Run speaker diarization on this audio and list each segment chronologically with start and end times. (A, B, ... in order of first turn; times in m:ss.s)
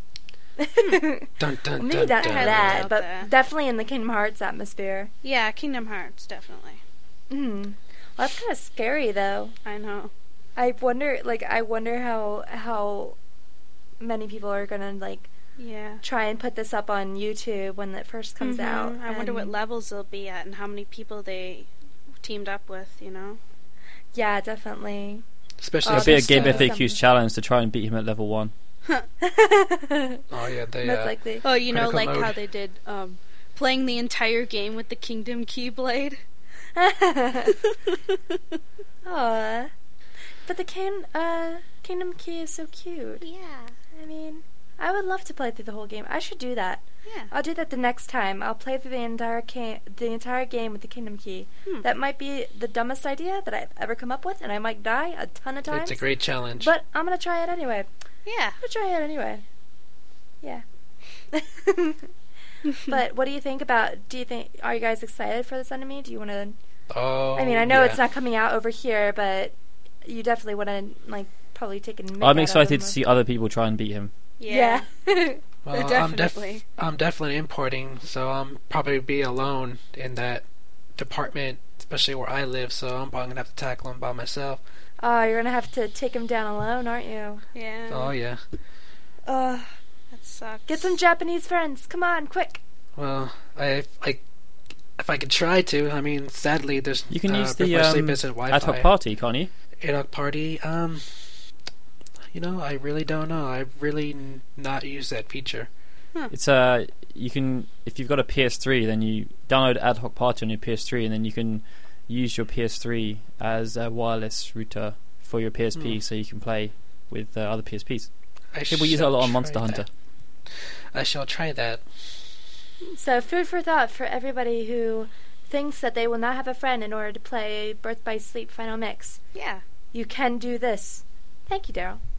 0:00.6-0:05.1 A
0:01.4-0:02.9 B
0:02.0-0:03.3 C
0:05.2-0:06.8 C
0:07.3-0:09.5 A
0:09.6-0:10.1 C
0:10.6-0:13.2 A
0:14.0-0:15.3 A
0:15.6-0:16.0 C
0:16.0-0:19.5 A
0:18.4-0:21.7 C
0:22.2-0:23.4 C
0:24.1-0:25.2 A
0:25.6-0:26.7 B
0:25.8-0:27.0 A
0:25.9-0:28.5 D
0:29.2-0:30.2 A
0:30.3-0:32.3 B
0:30.8-0:31.4 A
0:31.4-0:36.2 C
0:36.8-0:37.6 A
0:37.6-0:38.4 C
0:39.0-0:39.7 A
0:40.4-0:43.2 A
0:43.2-0:43.7 C
0:43.9-0:56.0 A
0:47.0-0:47.3 C
0:55.7-0:56.7 B
0:56.6-0:57.9 A
0:58.2-0:58.6 C
0:58.6-0:59.4 A
1:01.3-1:02.1 A
1:02.7-1:06.6 A
1:06.9-1:08.0 B
1:07.4-1:13.0 A
1:12.2-1:14.1 D
1:14.4-1:14.8 C
1:14.5-1:15.4 A
1:15.6-1:20.4 B
1:15.7-1:16.6 C
1:21.0-1:24.6 B
1:25.0-1:27.4 A
1:27.5-1:28.1 C
1:27.9-1:28.4 B
1:29.2-1:29.7 A
1:30.1-1:30.9 C
1:30.7-1:32.6 A
1:33.0-1:34.2 B
1:35.0-1:38.9 B
1:37.1-1:39.5 D
1:39.8-1:41.2 B
1:42.3-1:45.7 B
1:46.3-1:58.1 D
1:58.5-1:59.8 B
1:58.7-1:59.9 D
2:00.9-2:01.8 B
2:02.9-2:09.2 A
2:09.3-2:09.6 C
2:09.9-2:12.0 A